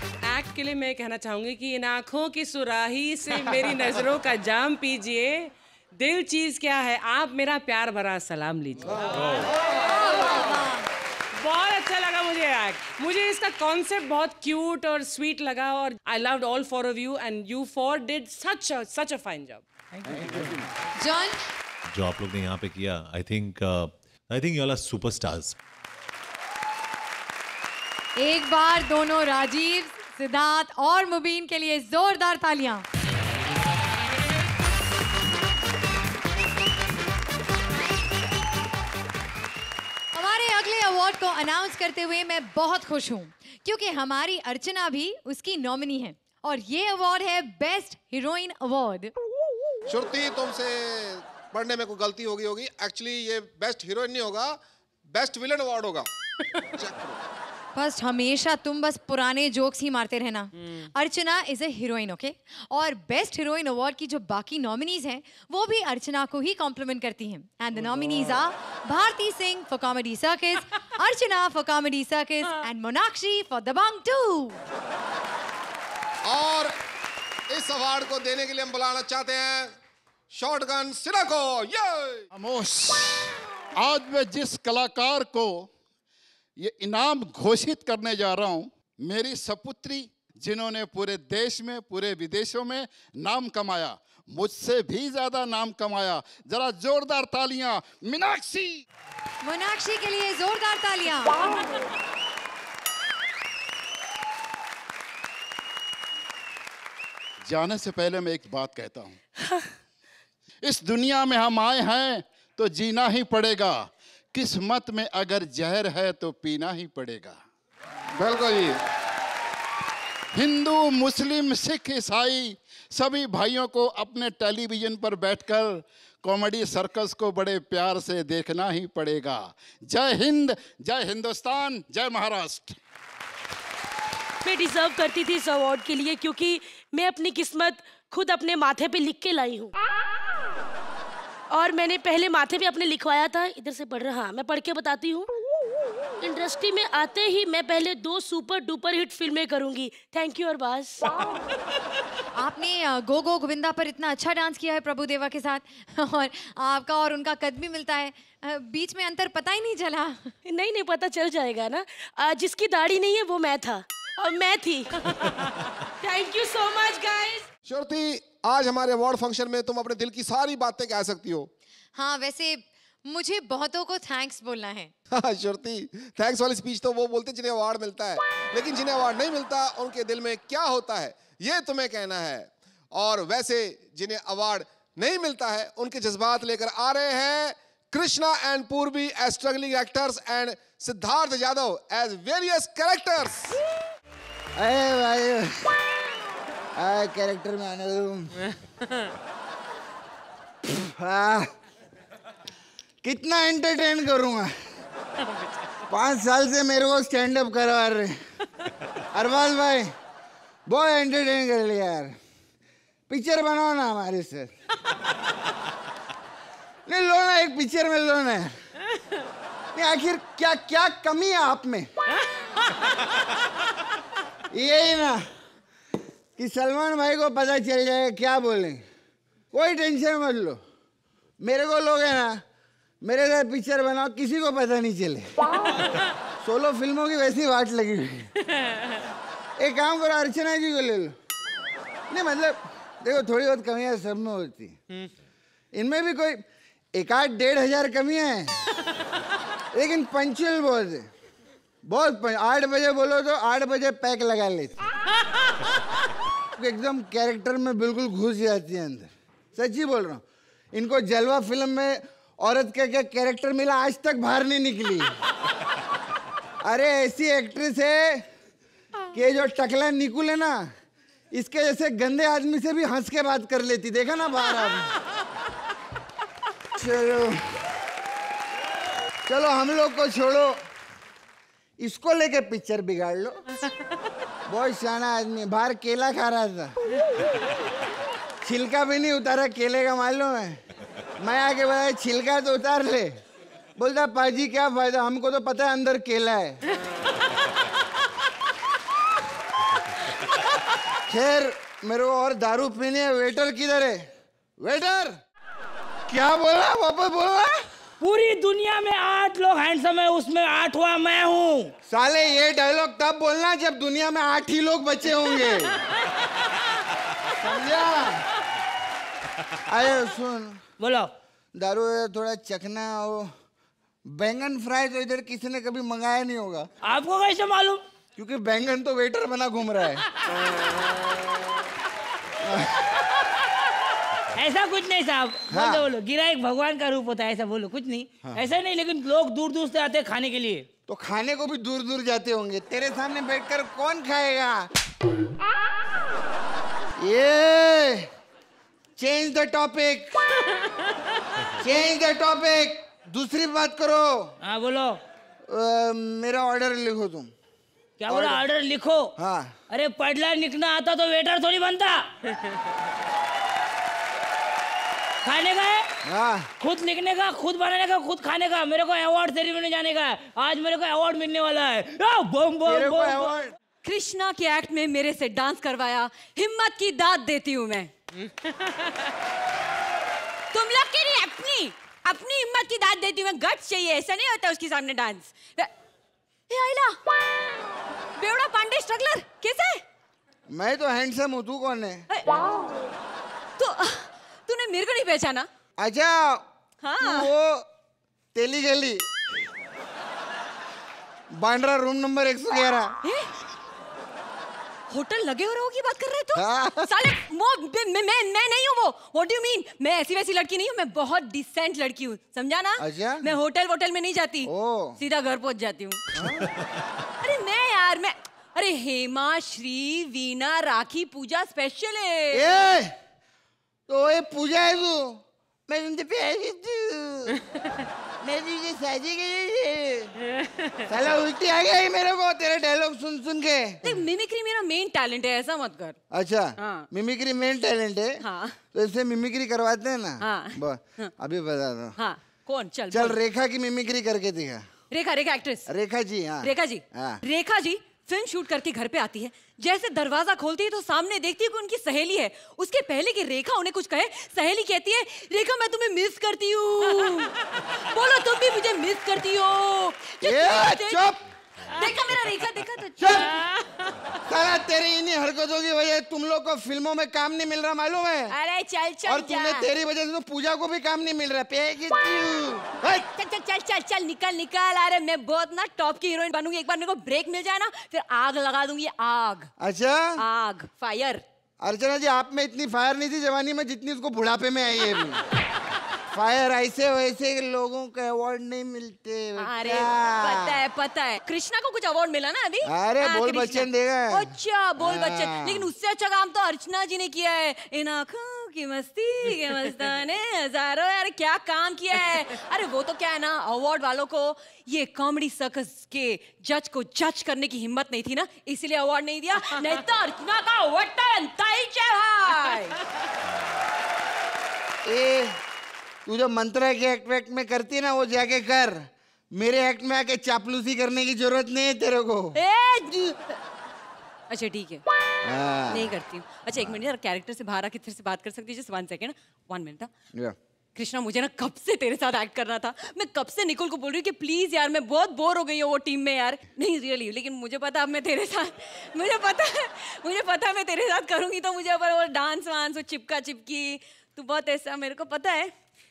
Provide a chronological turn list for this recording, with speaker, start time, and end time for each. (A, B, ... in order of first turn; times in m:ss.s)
0:00.2-0:09.5 A
0:10.0-0:10.8 B
0:11.4-0:19.6 A
0:20.1-0:20.5 C
0:21.0-0:21.4 B
0:21.9-0:25.6 D
0:28.2-0:32.8 B
0:40.1-0:49.1 B
0:49.9-0:56.1 E
0:56.8-0:57.2 E
0:57.8-1:14.6 B
1:00.6-1:00.9 A
1:16.2-1:16.7 E
1:17.5-1:19.7 E
1:20.3-1:22.2 E
1:22.3-1:23.1 F
1:23.8-1:25.7 F
1:26.6-1:38.8 F
1:39.4-1:41.4 B
1:47.5-1:49.2 F
1:50.7-1:57.4 F
1:58.2-1:58.8 E
2:00.4-2:12.8 F
2:14.4-2:19.7 G
2:21.5-2:25.3 G
2:26.2-2:31.1 G
2:32.4-2:40.3 B
2:40.4-2:44.9 G
2:46.1-2:47.3 G
2:47.7-2:51.5 E
2:52.0-2:54.9 B
2:55.1-3:13.5 E
3:14.6-3:15.7 H
3:16.8-3:18.3 H
3:20.6-3:21.5 H
3:23.0-3:24.5 H
3:25.2-3:25.6 A
3:25.9-3:28.2 H
3:29.1-3:29.9 H
3:30.7-3:32.2 H
3:33.1-3:34.5 H
3:36.9-3:38.6 H
3:39.7-3:41.9 H
3:44.5-3:45.2 H
3:46.4-3:48.8 H
3:49.5-3:50.6 H
3:51.4-3:52.4 H
3:53.0-3:55.3 H
3:56.4-3:58.3 H
3:59.6-4:01.2 H
4:02.1-4:04.8 H
4:05.7-4:08.5 H
4:09.7-4:11.1 H
4:11.8-4:14.8 H
4:16.6-4:20.2 H
4:20.7-4:25.1 H
4:26.6-4:28.2 H
4:29.1-4:30.7 H
4:31.3-4:34.9 H
4:36.8-4:37.6 H
4:39.3-4:40.6 H
4:41.8-4:43.4 H
4:44.5-4:46.8 H
4:48.4-4:50.6 H
4:51.2-4:53.2 H
4:53.8-4:56.6 H
5:01.1-5:05.2 H
5:06.1-5:07.6 H
5:08.0-5:11.7 C
5:11.9-5:15.8 H
5:17.4-5:18.2 H
5:19.7-5:20.6 H
5:20.8-5:21.1 C
5:21.6-5:23.3 H
5:24.1-5:26.7 H
5:26.8-5:27.8 C
5:28.2-5:30.0 H
5:32.4-5:32.8 H
5:34.4-5:40.7 C
5:35.5-5:35.9 H
5:40.9-5:44.7 H
5:47.0-5:48.1 H
5:49.0-5:50.2 H
5:51.6-5:54.4 H
5:54.4-5:55.0 C
5:55.5-5:57.3 H
5:58.0-5:59.1 C
5:58.1-5:58.4 H
5:59.2-5:59.5 H
5:59.7-6:02.0 C
6:05.2-6:05.9 C
6:06.0-6:06.5 H
6:06.6-6:13.4 C
6:12.7-6:13.5 H
6:13.8-6:17.9 I
6:20.5-6:25.7 I
6:26.5-6:27.0 I
6:28.2-6:29.8 I
6:30.5-6:32.0 H
6:32.1-6:32.4 I
6:33.6-6:35.5 I
6:35.8-6:36.4 H
6:36.8-6:37.3 I
6:37.0-6:37.7 H
6:38.4-6:39.0 H
6:41.3-6:42.9 H
6:43.0-6:43.3 I
6:44.9-6:56.0 I
6:46.4-6:46.9 H
6:52.8-6:53.3 H
6:54.4-6:55.0 H
6:56.2-6:56.5 H
6:57.2-7:02.5 I
7:02.3-7:03.0 H
7:03.9-7:07.3 H
7:08.2-7:10.1 H
7:10.9-7:13.8 H
7:13.8-7:16.0 I
7:16.1-7:18.2 H
7:16.6-7:16.9 I
7:18.2-7:18.6 I
7:18.7-7:22.0 H
7:20.2-7:21.1 I
7:22.0-7:23.2 I
7:22.9-7:24.7 H
7:24.9-7:25.7 I
7:25.7-7:27.2 H
7:26.4-7:41.1 I
7:40.2-7:41.2 H
7:41.7-7:43.3 I
7:43.0-7:43.3 H
7:44.3-7:48.4 H
7:48.3-7:49.6 I
7:49.0-7:53.0 H
7:53.0-7:59.5 I
7:59.6-8:00.2 H
8:00.2-8:01.2 I
8:01.6-8:05.2 H
8:06.1-8:10.6 H
8:09.4-8:32.8 I
8:12.6-8:15.7 H
8:34.8-8:35.4 H
8:36.1-8:42.4 H
8:42.4-8:43.4 I
8:44.3-8:44.8 I
8:45.2-8:46.0 H
8:45.7-8:49.9 I
8:46.6-8:46.8 H
8:50.8-9:05.5 I